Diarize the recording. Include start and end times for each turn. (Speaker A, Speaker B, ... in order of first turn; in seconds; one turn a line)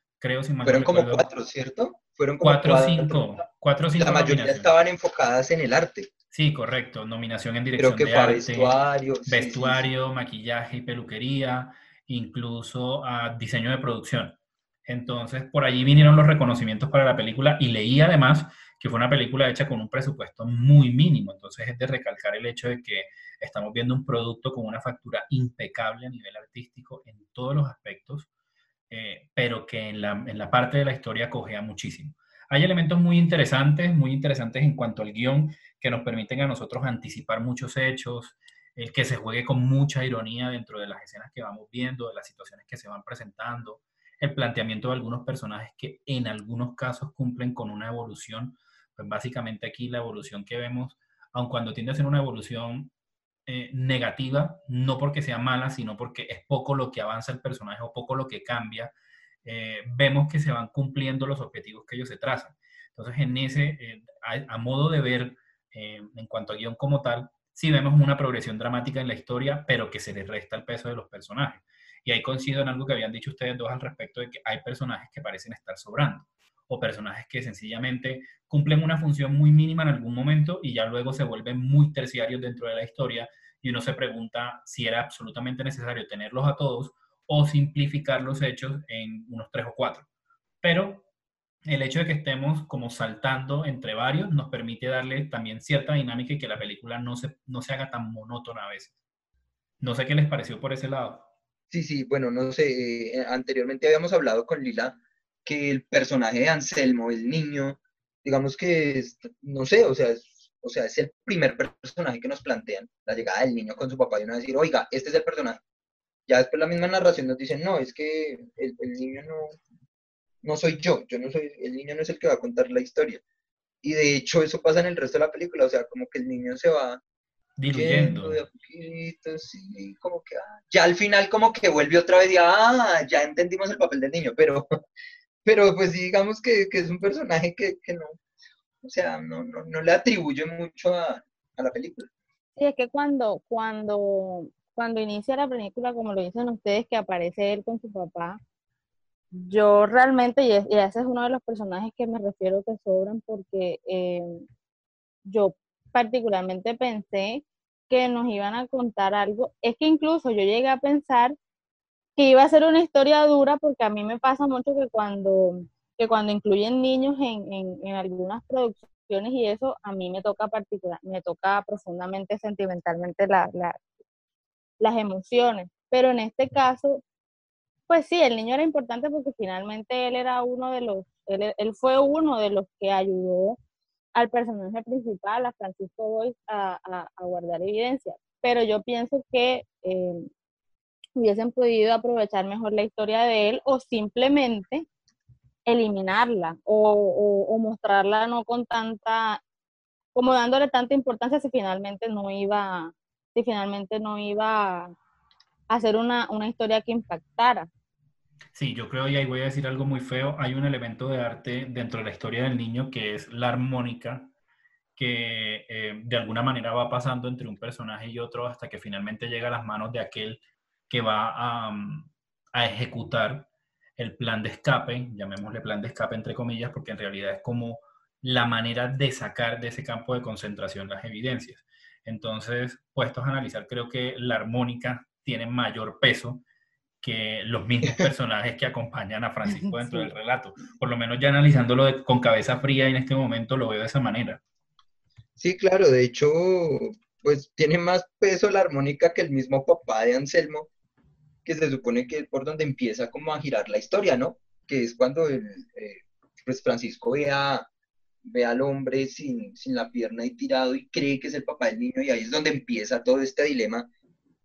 Speaker A: 0.2-1.3
Speaker B: 0.6-3.4
Speaker A: 2.4-4.7
Speaker B: 4.0-6.1
Speaker A: 6.3-8.7
Speaker B: 7.8-9.9
Speaker A: 9.2-28.3
Speaker A: 28.9-52.9
Speaker A: 53.5-58.9
Speaker A: 59.4-90.1
Speaker A: 90.6-91.0
Speaker A: 91.7-98.9
Speaker A: 99.8-101.3
Speaker B: 101.7-115.6
Speaker B: 116.3-119.6
Speaker B: 120.4-123.2
Speaker B: 123.8-127.0
Speaker A: 127.6-128.4
Speaker B: 127.7-134.7
Speaker B: 135.4-138.2
Speaker B: 138.8-142.1
Speaker C: 142.6-148.4
Speaker C: 149.3-154.4
Speaker C: 155.2-161.3
Speaker C: 162.2-173.8
Speaker C: 174.8-177.0
Speaker C: 177.9-183.6
Speaker C: 184.1-190.3
Speaker C: 191.2-194.8
Speaker C: 195.7-199.4
Speaker C: 200.1-204.9
Speaker C: 205.7-207.7
Speaker A: 208.5-214.3
Speaker A: 214.9-236.4
Speaker A: 237.0-244.4
Speaker C: 239.6-240.1
Speaker B: 245.4-250.7
Speaker B: 251.4-257.7
Speaker B: 258.2-263.9